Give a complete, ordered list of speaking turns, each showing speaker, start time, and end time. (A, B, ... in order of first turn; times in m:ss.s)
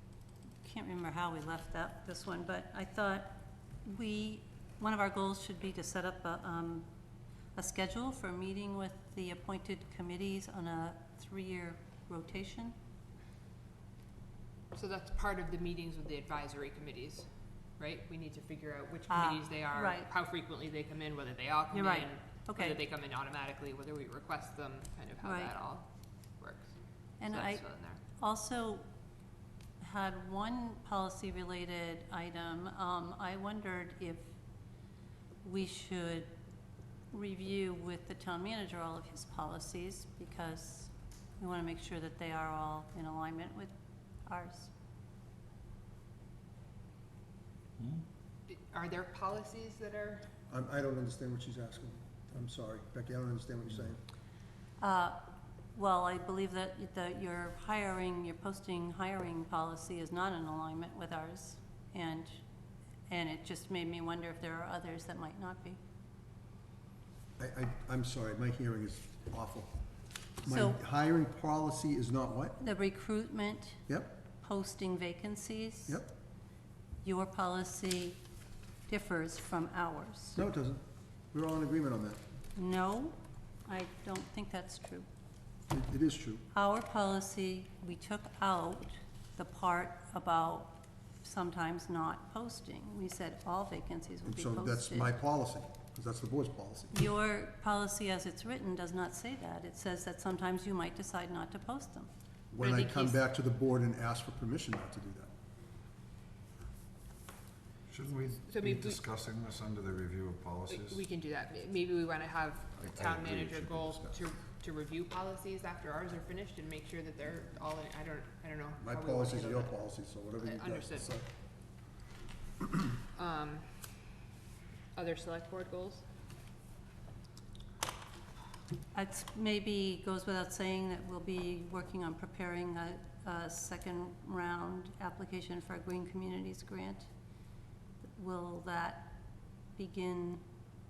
0:00.6-0:06.9 A
0:07.6-0:12.8 A
0:14.7-0:25.9 B
0:19.1-0:20.1 A
0:21.7-0:22.8 A
0:25.2-0:25.5 A
0:26.4-0:28.0 B
0:27.2-0:27.6 A
0:28.2-0:28.9 A
0:29.8-0:34.4 A
0:35.4-0:36.3 A
0:37.1-0:43.7 A
0:44.3-0:44.7 A
0:48.5-0:50.3 B
0:50.5-0:54.0 C
0:54.8-0:55.2 A
0:55.8-1:02.4 A
1:03.1-1:05.8 A
1:07.4-1:09.7 C
1:10.4-1:12.6 C
1:10.4-1:10.8 A
1:12.6-1:13.8 A
1:14.4-1:16.0 A
1:17.0-1:18.2 A
1:18.9-1:20.4 A
1:20.4-1:22.2 C
1:22.6-1:25.1 A
1:25.7-1:26.4 C
1:26.5-1:35.1 A
1:34.2-1:36.9 C
1:36.9-1:42.1 A
1:42.5-1:45.3 C
1:42.6-1:43.2 B
1:47.9-1:51.0 D
1:48.5-1:49.0 B
1:50.7-1:59.8 B
1:58.8-2:01.3 C
2:00.4-2:01.1 B
2:03.1-2:04.1 B
2:05.0-2:06.0 B
2:08.9-2:17.1 A
2:18.0-2:19.2 A
2:19.8-2:20.4 A